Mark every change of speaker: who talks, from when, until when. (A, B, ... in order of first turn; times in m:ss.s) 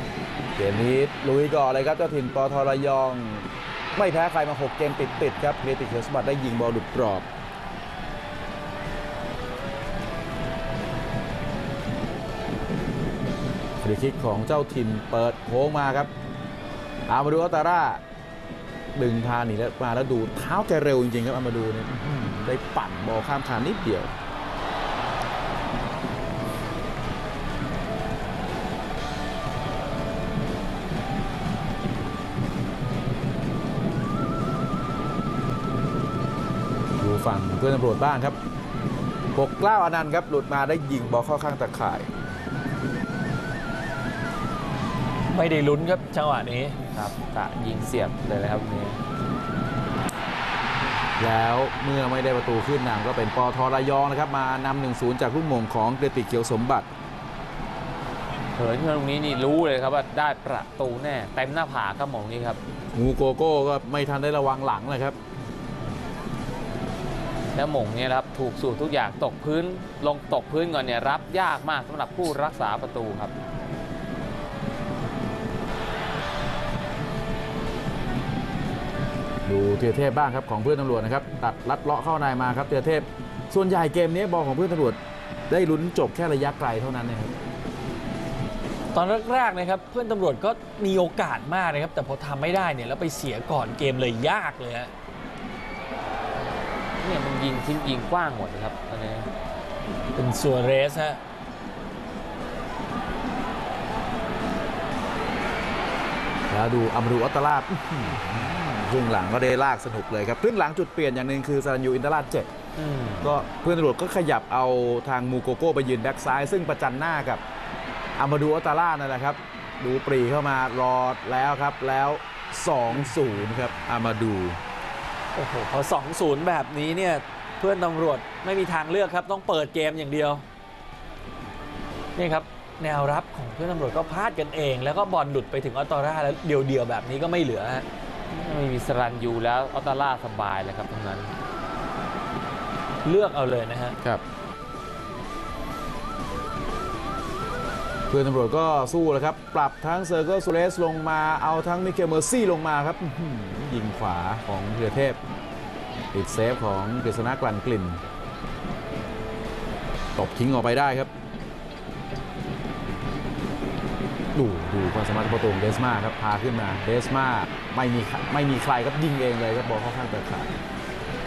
0:00.6-0:07.3 A
0:13.8-0:16.1 A
0:17.1-0:18.0 A
0:19.0-0:24.1 A
0:37.0-0:38.4 A
0:39.3-0:42.1 A
0:45.3-0:46.8 B
0:46.9-0:49.0 C
0:51.2-0:56.9 A
0:58.6-1:02.6 C
1:02.9-1:05.2 A
1:07.5-1:13.3 C
1:19.4-1:25.0 A
1:25.5-1:27.3 A
1:28.9-1:34.9 B
1:37.0-1:39.3 C
1:40.1-1:41.2 B
1:46.5-1:52.5 A
1:52.8-1:53.3 C
1:53.2-1:57.4 A
1:58.2-2:04.6 A
2:05.3-2:10.4 B
2:12.2-2:17.8 B
2:18.3-2:21.3 C
2:23.0-2:24.0 B
2:28.1-2:35.2 A
2:36.1-2:38.0 A
2:40.2-2:41.1 A
2:44.3-2:50.5 A